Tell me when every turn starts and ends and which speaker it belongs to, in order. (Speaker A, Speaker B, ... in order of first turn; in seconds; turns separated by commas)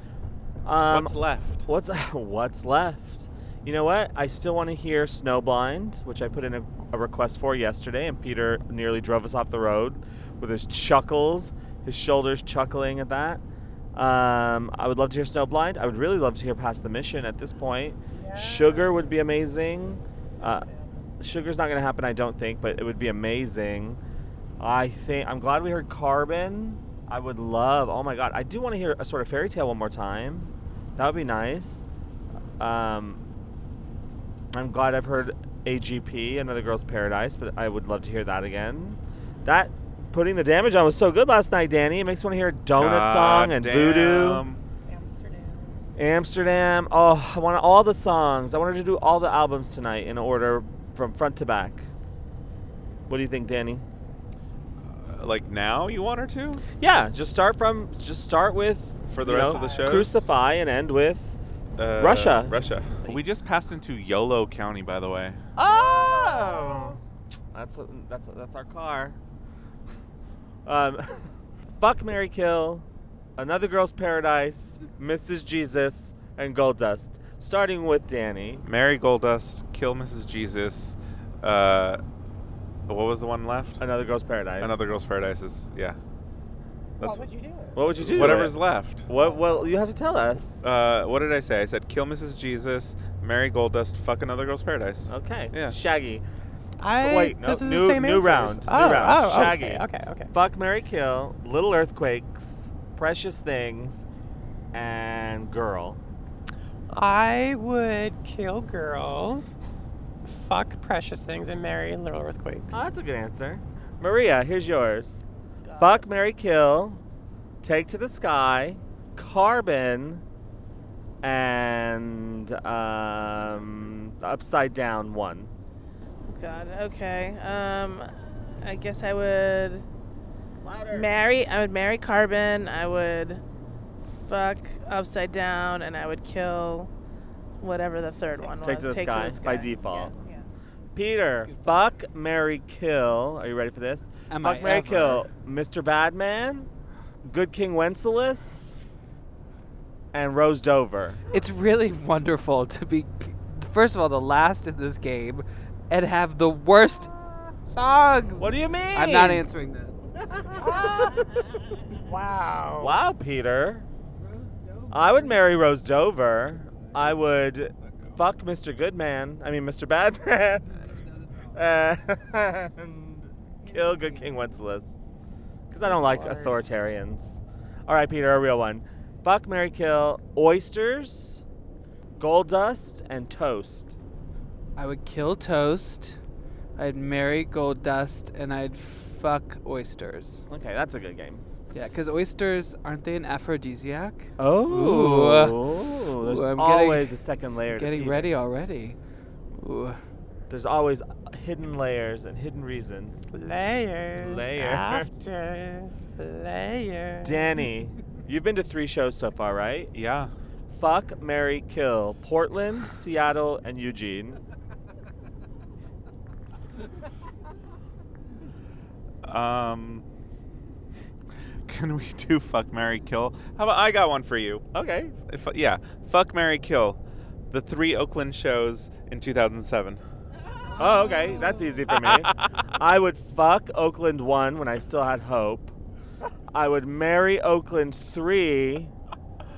Speaker A: 0.7-13.4, Speaker B: 0.9-1.6, Speaker A: 13.9-20.7, Speaker C: 18.2-19.0, Speaker A: 21.2-24.0, Speaker A: 24.6-31.9, Speaker A: 32.6-33.2, Speaker A: 34.5-44.4, Speaker B: 42.8-44.6, Speaker C: 44.9-45.8, Speaker A: 46.0-51.9, Speaker A: 53.1-53.9, Speaker B: 54.9-56.6, Speaker A: 56.8-61.4, Speaker B: 59.1-60.3, Speaker C: 59.5-59.9, Speaker B: 61.8-65.4, Speaker A: 62.0-62.5, Speaker A: 65.6-67.0, Speaker C: 66.1-66.8, Speaker A: 67.5-69.2, Speaker A: 70.7-78.7, Speaker B: 78.7-82.0, Speaker B: 82.9-83.8, Speaker A: 83.8-84.9, Speaker B: 84.6-86.0, Speaker B: 87.0-87.3, Speaker C: 87.0-87.8, Speaker A: 87.8-88.5, Speaker B: 88.0-89.1, Speaker A: 89.1-90.6, Speaker B: 90.6-95.8, Speaker A: 95.1-96.2, Speaker C: 96.8-100.3, Speaker A: 97.0-104.0, Speaker A: 104.7-106.0, Speaker C: 106.9-109.5, Speaker C: 110.2-112.9, Speaker A: 112.7-115.2, Speaker D: 115.7-116.0, Speaker A: 115.8-117.0, Speaker A: 117.6-120.2, Speaker A: 121.2-125.5, Speaker D: 126.3-129.9, Speaker A: 130.6-131.1, Speaker D: 130.9-133.4, Speaker D: 134.2-136.9, Speaker D: 137.6-140.4, Speaker A: 138.4-140.1, Speaker A: 140.9-146.7, Speaker E: 144.3-145.3, Speaker A: 147.2-148.7, Speaker A: 150.1-151.2, Speaker E: 151.3-157.1, Speaker E: 157.7-160.0, Speaker A: 158.4-159.4, Speaker C: 160.5-161.4, Speaker C: 161.9-163.0, Speaker A: 162.8-163.9, Speaker A: 164.9-174.9, Speaker B: 167.9-168.1, Speaker A: 175.7-177.3, Speaker C: 175.8-176.6, Speaker A: 177.9-181.4, Speaker A: 182.2-183.9, Speaker E: 184.8-186.2, Speaker E: 186.8-190.4, Speaker A: 190.5-191.4, Speaker E: 191.7-197.2, Speaker A: 194.4-198.3, Speaker E: 197.7-199.0, Speaker E: 199.5-200.0, Speaker A: 200.5-203.2, Speaker C: 203.3-207.6, Speaker A: 204.2-205.1, Speaker A: 207.2-209.9, Speaker B: 209.9-210.3, Speaker A: 210.7-214.4, Speaker B: 219.2-220.1, Speaker B: 221.7-224.6, Speaker A: 224.7-225.2, Speaker B: 225.3-227.0, Speaker B: 227.5-230.0, Speaker A: 230.8-235.7, Speaker B: 231.9-232.3, Speaker A: 236.5-238.9